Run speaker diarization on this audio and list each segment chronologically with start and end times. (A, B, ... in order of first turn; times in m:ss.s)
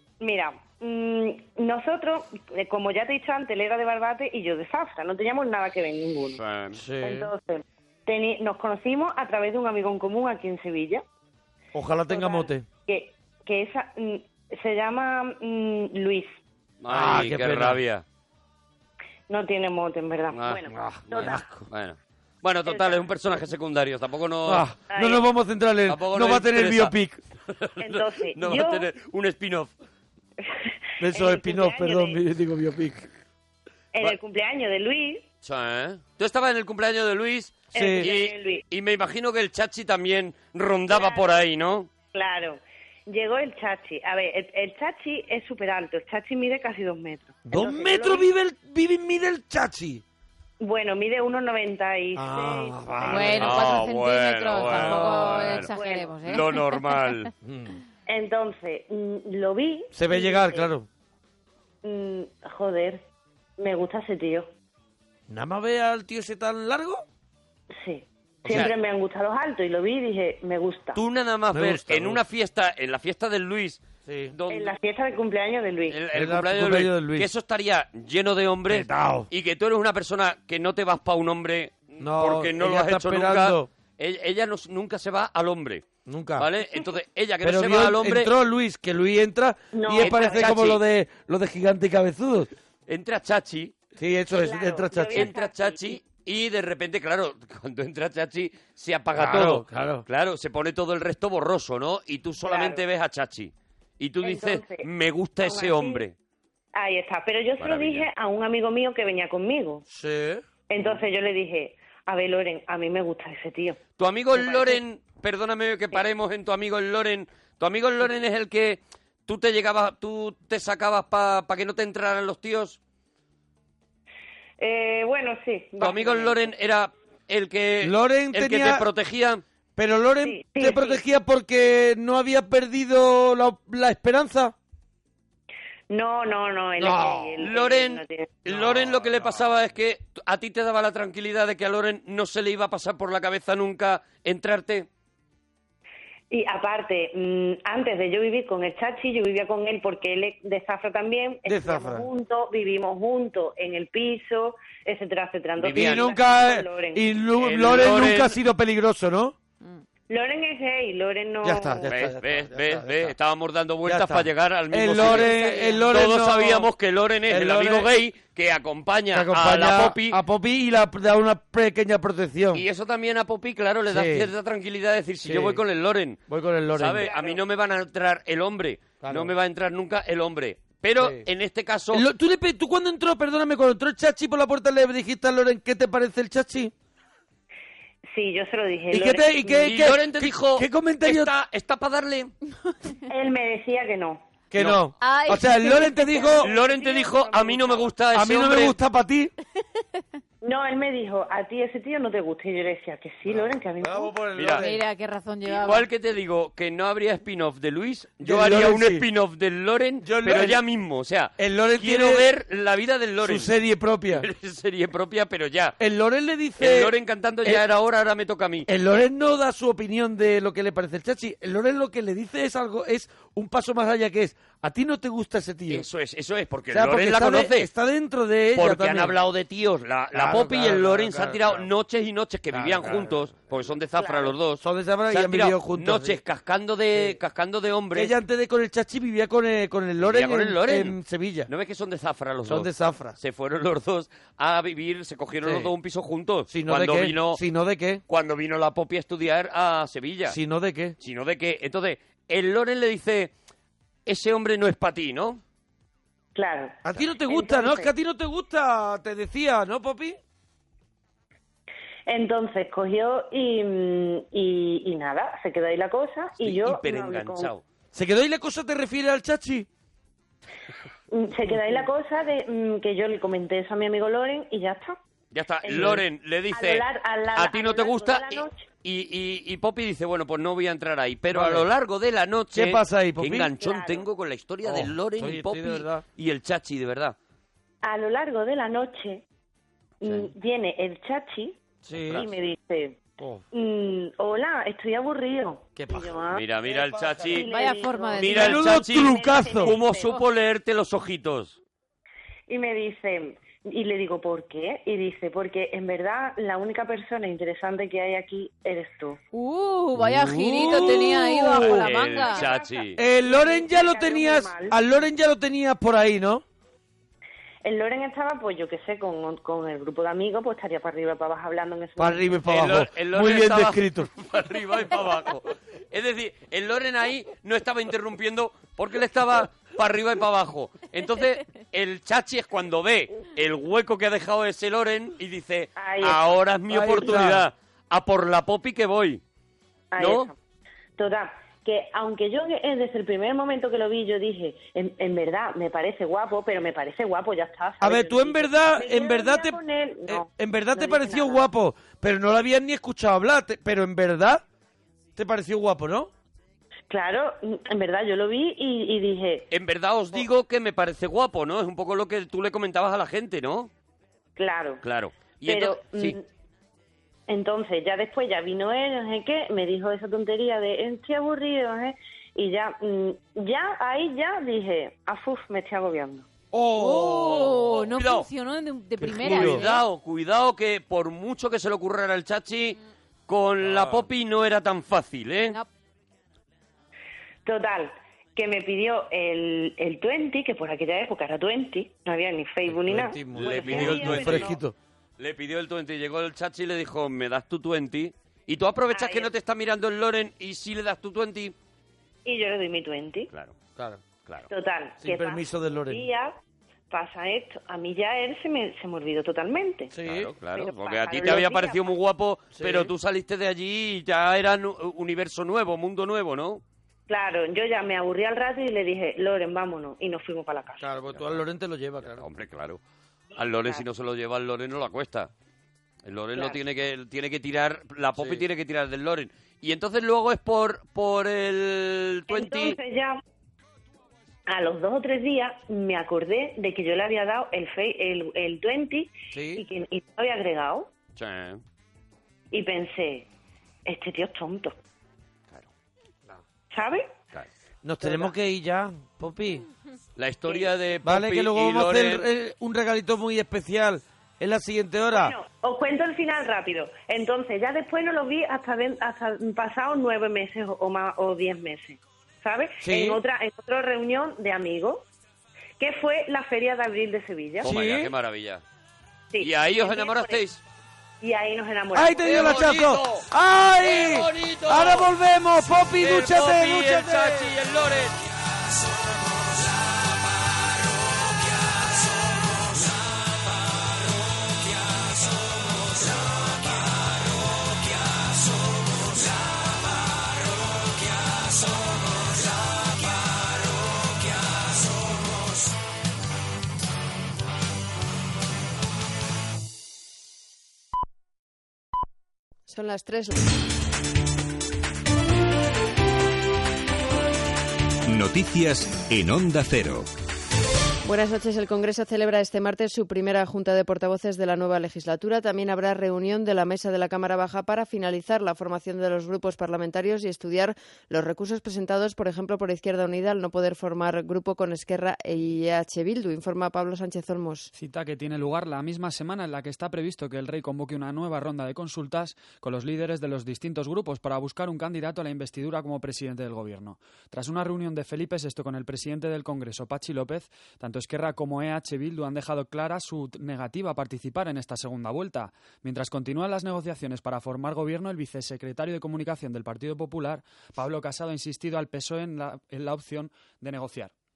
0:00.2-0:06.4 A
0:06.4-0:06.8 B
0:06.7-0:07.3 C
0:07.0-0:11.0 A
0:11.7-0:12.6 C
0:12.1-0:16.3 A
0:16.8-0:18.0 B
0:16.9-0:17.8 C
0:19.3-0:21.4 A
0:20.3-0:24.6 B
0:20.8-0:21.4 C
0:22.6-0:23.1 A
0:24.4-0:27.2 C
0:24.9-0:25.2 A
0:25.9-0:26.9 B
0:27.5-0:29.7 B
0:27.8-0:28.9 A
0:30.4-0:32.2 A
0:31.0-0:33.1 C
0:33.9-0:35.2 A
0:35.4-0:41.9 B
0:37.7-0:38.6 A
0:37.7-0:38.1 C
0:40.9-0:41.4 A
0:42.1-0:48.3 A
0:47.5-0:50.0 C
0:50.6-0:53.5 A
0:52.1-0:53.6 C
0:53.0-0:56.8 D
0:53.4-0:55.7 B
0:54.6-0:55.5 C
0:55.7-0:56.1 A
0:56.2-0:57.3 B
0:57.4-0:57.8 C
0:58.1-1:00.7 A
0:59.9-1:00.9 C
1:01.8-1:03.0 A
1:03.6-1:04.5 A
1:05.3-1:07.0 C
1:07.7-1:11.0 A
1:08.4-1:08.7 C
1:08.5-1:08.7 B
1:10.9-1:13.8 B
1:11.5-1:12.2 C
1:14.0-1:14.3 C
1:14.3-1:14.7 B
1:14.5-1:16.0 A
1:15.9-1:28.3 B
1:16.1-1:17.3 C
1:18.7-1:19.3 C
1:22.0-1:23.7 C
1:26.0-1:26.5 C
1:27.4-1:32.5 C
1:29.7-1:30.6 A
1:30.0-1:30.8 B
1:32.9-1:33.7 B
1:34.0-1:35.3 C
1:34.3-1:36.0 A
1:35.1-1:46.1 B
1:39.1-1:40.0 C
1:42.4-1:42.8 A
1:44.2-1:44.9 A
1:45.4-1:46.0 A
1:46.7-1:49.8 A
1:47.6-1:48.1 B
1:49.9-1:50.4 C
1:50.7-1:53.8 A
1:54.0-2:02.8 B
1:54.4-1:54.8 A
2:04.6-2:06.4 A
2:05.8-2:09.4 B
2:07.8-2:08.8 C
2:09.8-2:14.5 C
2:10.2-2:11.0 A
2:15.9-2:18.3 A
2:16.8-2:17.4 C
2:17.4-2:24.9 B
2:18.5-2:19.4 C
2:26.3-2:37.1 A
2:31.4-2:32.1 C
2:35.6-2:36.1 B
2:35.6-2:39.3 C
2:37.4-2:38.4 B
2:40.1-2:41.9 A
2:41.4-2:43.1 C
2:41.8-2:50.2 B
2:43.8-2:46.7 C
2:45.0-2:45.8 A
2:47.3-2:47.9 C
2:49.1-2:52.6 C
2:52.5-2:56.2 B
2:53.9-2:54.3 C
2:55.2-2:55.6 C
2:56.3-2:57.1 C
2:56.7-3:02.0 B
2:57.0-2:57.4 A
2:59.0-2:59.3 C
3:01.0-3:01.2 C
3:01.9-3:06.7 C
3:08.1-3:09.7 A
3:08.9-3:11.3 C
3:09.6-3:12.3 B
3:13.1-3:14.2 A
3:14.5-3:16.5 C
3:14.6-3:14.8 B
3:15.0-3:16.2 D
3:16.1-3:17.9 A
3:16.4-3:18.8 B
3:18.1-3:19.3 C
3:20.4-3:24.1 A
3:23.2-3:24.8 C
3:24.3-3:24.6 B
3:24.6-3:25.8 D
3:25.4-3:33.5 B
3:28.2-3:29.0 C
3:30.0-3:30.6 C
3:31.4-3:32.2 C
3:33.2-3:34.3 C
3:34.1-3:35.8 B
3:35.8-3:37.6 C
3:36.6-3:38.7 B
3:38.7-3:45.8 C
3:45.7-3:47.7 B
3:46.7-3:49.1 C
3:48.5-3:58.1 B
3:50.1-3:51.7 C
3:52.5-3:53.2 C
3:54.0-3:54.3 A
3:54.6-3:56.2 C
3:57.9-4:01.5 C
4:00.0-4:07.4 B
4:02.4-4:03.2 C
4:05.4-4:05.7 C
4:06.5-4:08.0 C
4:08.1-4:10.4 B
4:10.3-4:11.0 C
4:11.0-4:13.3 B
4:14.0-4:15.4 B
4:16.3-4:17.9 A
4:16.8-4:20.2 C
4:22.1-4:27.5 A
4:26.4-4:27.6 B
4:27.9-4:29.7 C
4:31.1-4:35.0 A
4:35.3-4:47.2 B
4:35.6-4:38.6 A
4:35.7-4:36.0 C
4:41.3-4:41.7 C
4:42.5-4:43.5 C
4:43.5-4:44.0 A
4:44.6-4:46.0 C
4:47.8-4:49.2 A
4:50.0-4:51.6 A
4:50.0-4:50.3 B
4:51.8-4:52.2 C
4:52.1-4:53.0 A
4:53.5-4:56.4 A
4:55.8-4:56.1 C
4:56.3-4:57.5 B
4:57.2-5:00.2 A
4:57.3-4:58.8 D
4:58.2-5:01.6 B
4:58.2-4:59.8 C
5:02.5-5:09.2 A
5:09.3-5:12.5 D
5:10.0-5:11.8 C
5:11.6-5:13.0 B
5:12.2-5:14.8 A
5:13.0-5:16.4 C
5:17.6-5:22.4 A
5:22.0-5:24.1 C
5:22.5-5:39.2 B
5:35.8-5:36.2 A
5:36.7-5:37.4 C
5:39.9-5:40.3 A
5:40.0-5:40.3 B
5:41.0-5:51.5 A
5:47.8-5:49.6 C
5:50.1-5:54.4 C
5:55.2-5:56.1 C
5:56.9-5:59.4 A
5:59.5-6:03.7 B
6:04.4-6:04.8 A
6:04.8-6:06.2 B
6:05.4-6:06.2 A
6:07.3-6:16.3 A
6:16.5-6:17.5 C
6:16.7-6:19.8 D
6:17.0-6:18.3 B
6:19.0-6:19.6 C
6:19.2-6:25.6 B
6:23.6-6:24.1 C
6:27.4-6:34.6 A
6:32.7-6:34.7 C
6:33.4-6:34.5 B
6:35.2-6:41.5 B
6:38.9-6:39.3 A
6:42.2-6:43.3 A
6:43.8-6:44.0 C
6:44.5-6:46.3 A
6:45.0-6:46.0 C
6:46.9-6:49.9 A
6:49.9-6:50.3 C
6:50.0-6:56.6 B
6:50.5-6:52.0 A
6:52.5-6:52.9 C
6:57.1-7:00.9 A
7:00.8-7:02.2 C
7:02.0-7:02.8 B
7:03.4-7:05.3 B
7:06.0-7:12.8 B
7:08.2-7:08.4 C
7:12.3-7:13.2 A
7:14.5-7:20.9 A
7:19.3-7:19.6 C
7:21.2-7:21.6 B
7:22.5-7:23.2 A
7:23.8-7:24.7 A
7:26.7-7:27.1 A
7:27.8-7:29.6 C
7:28.0-7:28.3 A
7:30.2-7:32.2 B
7:31.0-7:35.3 C
7:35.1-7:45.0 A
7:42.8-7:43.2 C
7:45.8-7:47.7 A
7:47.6-7:48.1 C
7:47.6-7:48.6 B
7:49.3-7:50.4 A
7:49.4-7:50.6 B
7:51.2-7:52.5 A
7:51.9-7:57.5 C
7:52.2-7:53.2 B
7:53.8-7:55.1 B
7:56.0-7:58.2 B
8:22.7-8:23.4 E
8:28.1-8:30.1 F
8:31.0-8:47.7 E
8:47.7-9:14.1 G